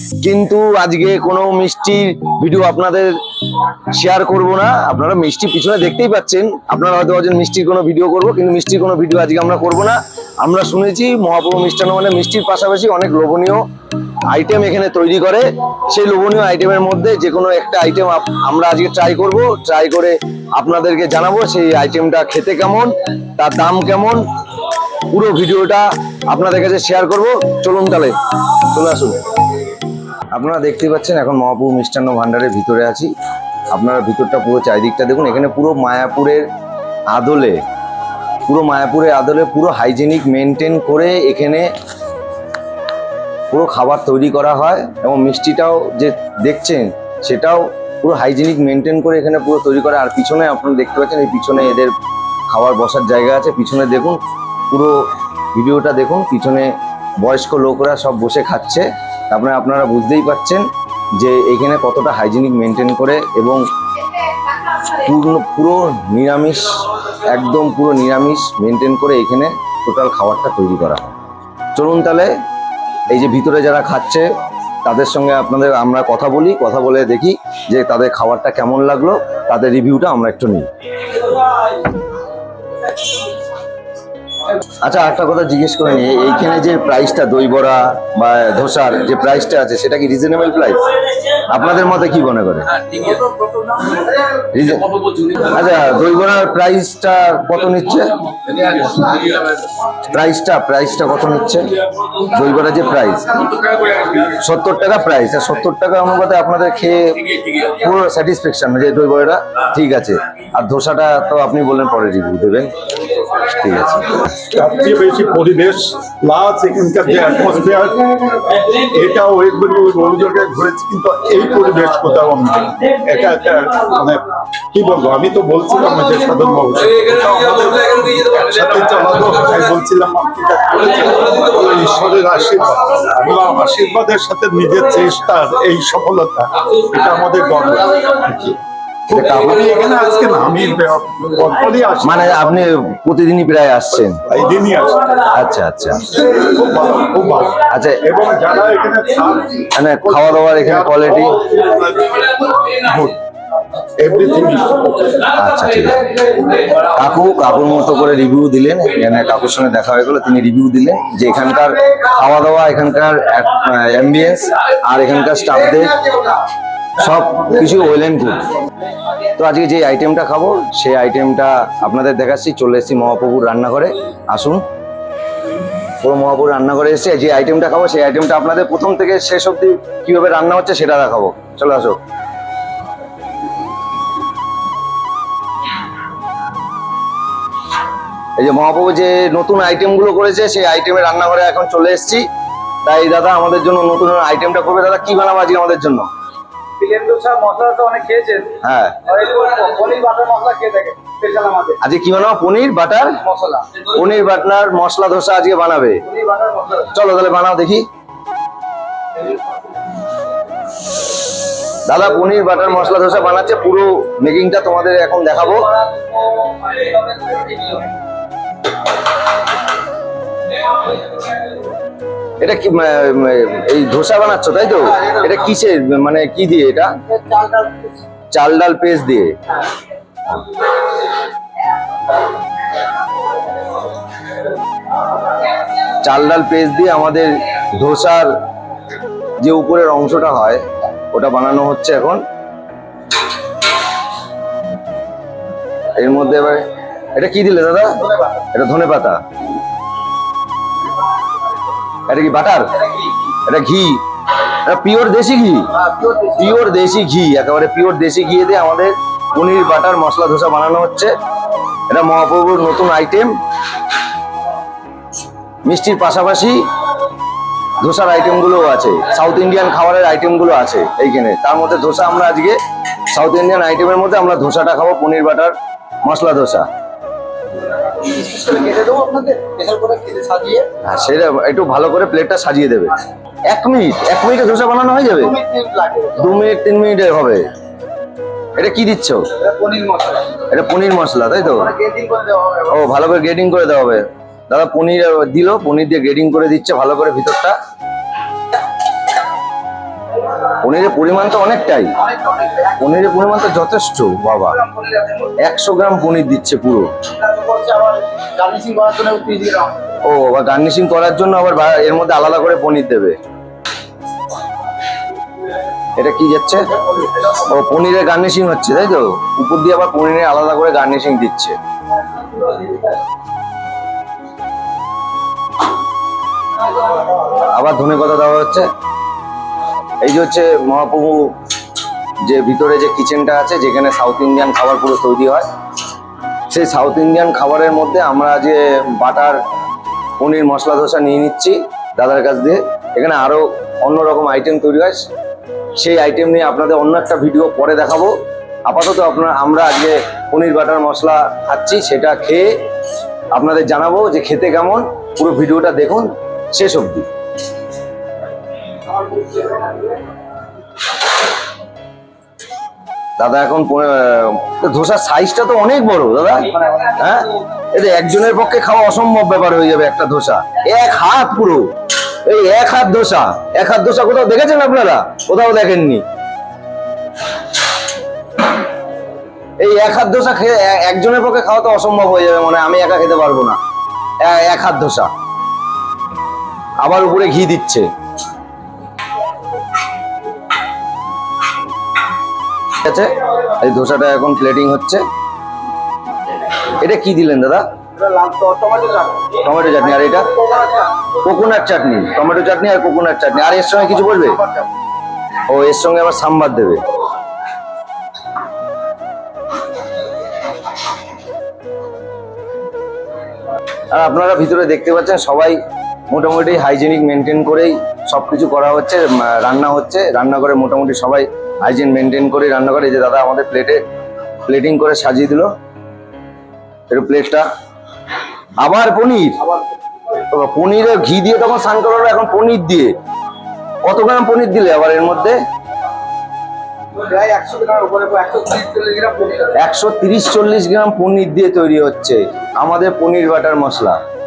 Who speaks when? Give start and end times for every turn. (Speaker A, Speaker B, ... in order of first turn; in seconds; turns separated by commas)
Speaker A: 0.2-3.1, Speaker A: 3.9-13.6, Speaker A: 14.3-24.2, Speaker A: 25.0-29.2, Speaker A: 30.3-33.1, Speaker A: 33.7-36.5, Speaker A: 37.1-37.6, Speaker A: 38.5-41.7, Speaker A: 43.5-51.9, Speaker A: 52.5-54.2, Speaker A: 55.5-60.6, Speaker A: 61.2-63.6, Speaker A: 64.8-71.1, Speaker A: 71.8-72.3, Speaker A: 73.1-74.3, Speaker A: 74.8-80.7, Speaker A: 84.8-93.0, Speaker B: 93.1-94.1, Speaker A: 94.4-98.2, Speaker B: 98.8-99.2, Speaker A: 100.0-103.6, Speaker A: 104.2-114.2, Speaker C: 114.3-138.6, Speaker A: 139.1-139.6, Speaker C: 139.1-142.7, Speaker A: 142.0-144.2, Speaker C: 144.2-145.3, Speaker A: 145.3-146.1, Speaker C: 146.0-153.2, Speaker A: 147.7-148.0, Speaker A: 149.7-151.5, Speaker C: 154.0-155.3, Speaker A: 155.2-166.2, Speaker A: 167.0-168.5, Speaker A: 169.4-174.7, Speaker A: 176.0-182.0, Speaker A: 188.4-192.3, Speaker A: 192.8-196.1, Speaker B: 196.8-201.8, Speaker A: 198.6-199.2, Speaker A: 201.8-203.2, Speaker B: 203.2-203.7, Speaker A: 203.8-206.1, Speaker B: 206.1-206.9, Speaker A: 206.9-207.9, Speaker A: 211.8-215.8, Speaker B: 216.8-217.8, Speaker A: 222.4-227.0, Speaker B: 227.1-228.0, Speaker A: 228.3-229.4, Speaker A: 235.9-238.3, Speaker A: 239.4-242.2, Speaker A: 246.0-249.2, Speaker A: 252.1-252.8, Speaker A: 253.5-261.1, Speaker B: 255.8-256.4, Speaker A: 261.9-263.4, Speaker A: 265.7-266.7, Speaker A: 267.8-272.6, Speaker A: 273.1-275.5, Speaker A: 276.1-276.7, Speaker B: 277.7-280.7, Speaker A: 280.8-285.4, Speaker B: 285.2-286.3, Speaker A: 286.2-287.5, Speaker A: 288.6-289.3, Speaker B: 289.4-290.4, Speaker A: 290.4-291.7, Speaker B: 291.5-292.7, Speaker A: 292.7-297.6, Speaker A: 300.5-302.0, Speaker B: 302.0-302.8, Speaker A: 302.7-304.6, Speaker B: 304.6-305.3, Speaker A: 305.4-306.9, Speaker B: 307.2-309.9, Speaker A: 310.0-313.2, Speaker A: 316.0-316.6, Speaker A: 317.2-321.6, Speaker A: 327.3-328.7, Speaker A: 330.0-331.4, Speaker A: 332.3-335.5, Speaker A: 336.5-339.4, Speaker A: 340.2-345.1, Speaker A: 345.8-348.1, Speaker A: 348.7-352.6, Speaker A: 353.3-357.1, Speaker A: 363.2-371.7, Speaker A: 372.2-376.1, Speaker A: 379.6-383.6, Speaker A: 384.2-385.1, Speaker A: 386.8-387.9, Speaker A: 392.8-395.0, Speaker A: 396.7-397.7, Speaker B: 398.0-400.9, Speaker A: 399.4-400.4, Speaker A: 401.1-404.4, Speaker B: 403.8-404.7, Speaker A: 405.5-406.9, Speaker A: 413.9-415.6, Speaker A: 416.1-423.8, Speaker A: 424.5-425.5, Speaker A: 426.9-427.5, Speaker A: 428.6-429.4, Speaker B: 429.5-429.7, Speaker A: 430.2-432.9, Speaker A: 433.8-435.4, Speaker B: 436.9-439.6, Speaker A: 439.5-444.0